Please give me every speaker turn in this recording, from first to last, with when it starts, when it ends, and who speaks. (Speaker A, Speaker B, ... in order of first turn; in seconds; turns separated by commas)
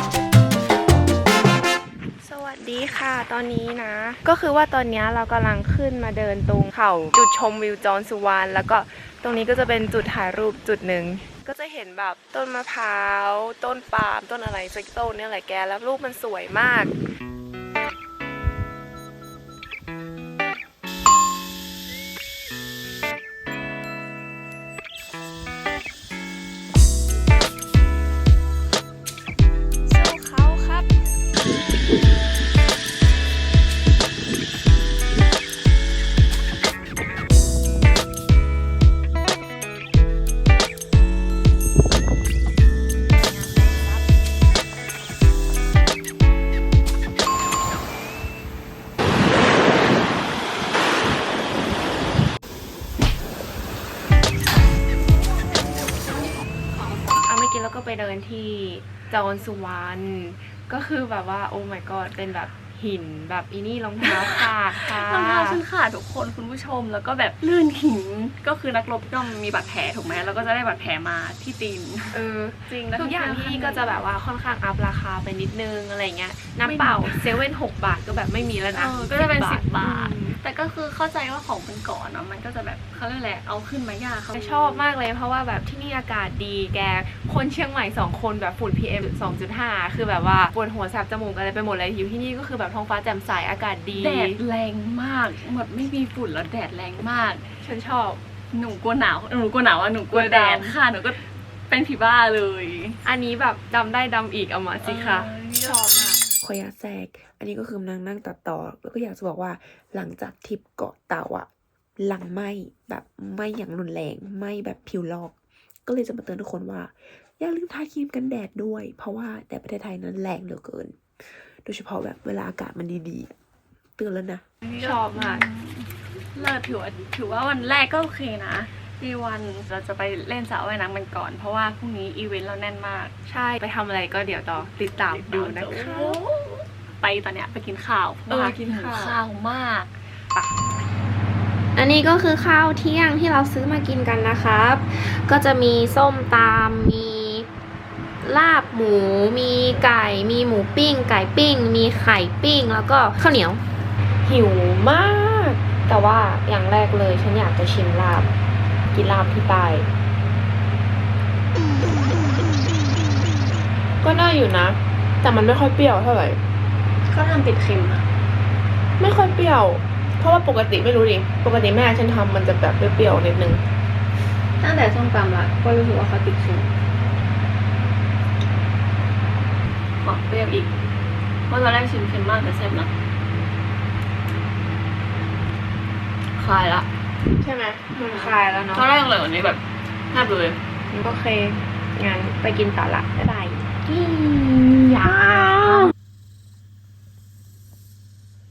Speaker A: 2.2-16.9, Speaker A: 29.9-30.9, Speaker A: 57.2-65.6, Speaker B: 64.0-74.0, Speaker A: 72.1-80.4, Speaker B: 76.6-77.3, Speaker B: 78.7-84.8, Speaker A: 84.3-94.4, Speaker B: 93.9-97.4, Speaker A: 97.6-98.2, Speaker B: 98.5-103.0, Speaker A: 100.1-100.8, Speaker A: 103.0-106.2, Speaker B: 104.8-106.3, Speaker C: 106.4-115.3, Speaker C: 115.8-123.3, Speaker C: 124.0-124.4, Speaker B: 124.6-133.1, Speaker A: 124.8-125.4, Speaker A: 133.2-136.2, Speaker B: 135.1-139.9, Speaker A: 138.3-139.2, Speaker D: 141.8-147.4, Speaker D: 148.2-153.6, Speaker A: 154.2-158.3, Speaker A: 158.9-159.9, Speaker A: 164.0-166.4, Speaker B: 167.1-168.0, Speaker A: 169.0-173.6, Speaker B: 174.6-176.7, Speaker B: 180.0-180.7, Speaker B: 181.5-182.9, Speaker B: 186.3-186.9, Speaker A: 187.4-188.8, Speaker B: 187.9-190.6, Speaker A: 190.9-195.9